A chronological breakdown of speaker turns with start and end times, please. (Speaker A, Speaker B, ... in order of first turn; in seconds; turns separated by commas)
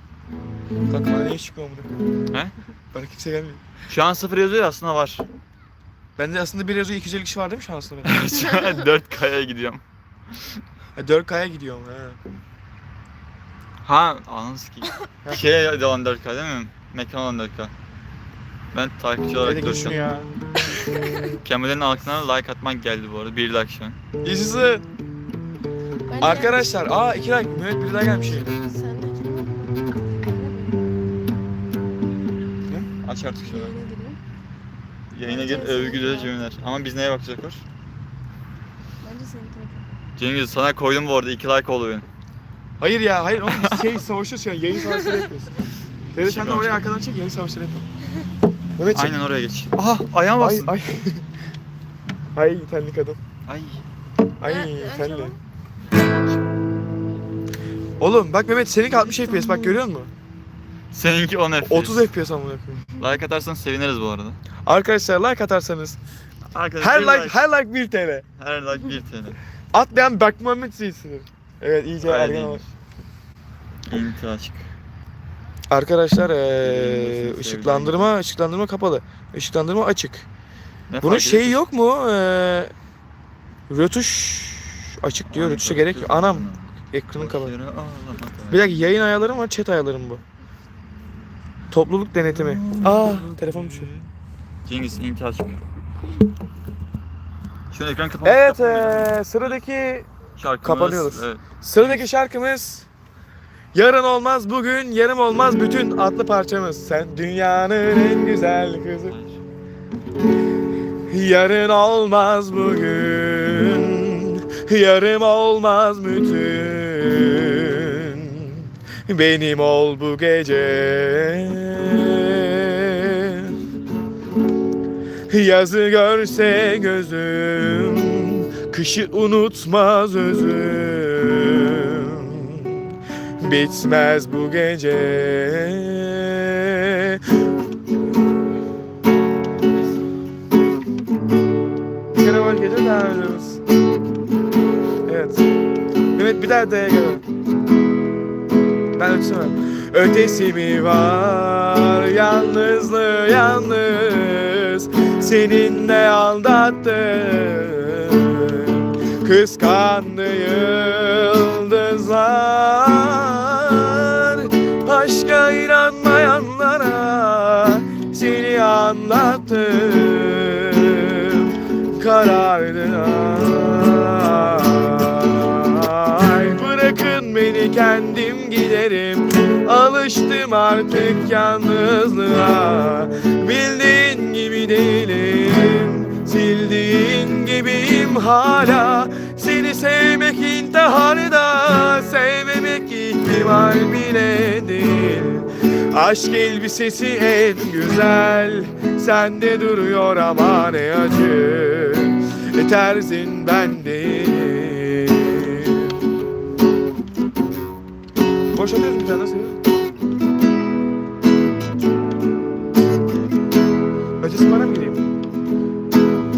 Speaker A: 0.9-1.9, Speaker A: 2.9-3.6, Speaker B: 3.9-5.2, Speaker A: 6.2-8.3, Speaker B: 8.1-9.8, Speaker A: 11.0-12.2, Speaker B: 13.8-17.7, Speaker B: 18.7-20.0, Speaker A: 19.4-20.3, Speaker C: 20.9-21.3, Speaker B: 21.4-24.0, Speaker A: 24.2-24.8, Speaker C: 26.1-27.0, Speaker A: 26.2-28.6, Speaker C: 28.4-30.9, Speaker B: 33.0-33.8, Speaker C: 33.5-34.2, Speaker B: 35.1-37.6, Speaker C: 35.2-36.4, Speaker C: 39.0-39.9, Speaker B: 40.2-42.1, Speaker A: 42.8-45.5, Speaker B: 43.5-43.9, Speaker A: 46.1-47.9, Speaker B: 46.2-46.9, Speaker A: 48.8-49.2, Speaker B: 48.9-50.7, Speaker A: 50.4-51.2, Speaker A: 52.4-53.2, Speaker B: 53.5-53.8, Speaker A: 54.4-55.4, Speaker C: 54.4-55.4, Speaker A: 58.0-60.1, Speaker C: 59.3-59.7, Speaker B: 60.9-62.1, Speaker A: 61.6-62.9, Speaker B: 63.0-64.4, Speaker A: 64.7-66.0, Speaker B: 66.5-67.5, Speaker A: 66.8-68.2, Speaker B: 68.4-69.4, Speaker A: 69.7-72.6, Speaker B: 72.0-72.7, Speaker B: 73.9-74.7, Speaker A: 75.7-80.3, Speaker B: 76.6-78.1, Speaker B: 80.9-81.6, Speaker A: 81.0-82.7, Speaker A: 83.7-87.5, Speaker B: 85.3-88.9, Speaker A: 88.5-90.2, Speaker A: 91.7-93.9, Speaker B: 92.2-94.1, Speaker B: 94.7-95.6, Speaker B: 97.7-99.6, Speaker A: 98.2-100.1, Speaker B: 100.4-102.1, Speaker A: 100.6-102.9, Speaker A: 103.7-109.2, Speaker B: 109.1-109.4, Speaker A: 111.1-123.6, Speaker A: 125.3-132.9, Speaker A: 133.4-137.2, Speaker A: 142.1-143.6, Speaker A: 145.1-145.5, Speaker A: 146.2-147.2, Speaker A: 148.9-206.0, Speaker A: 208.5-209.6, Speaker A: 214.2-215.1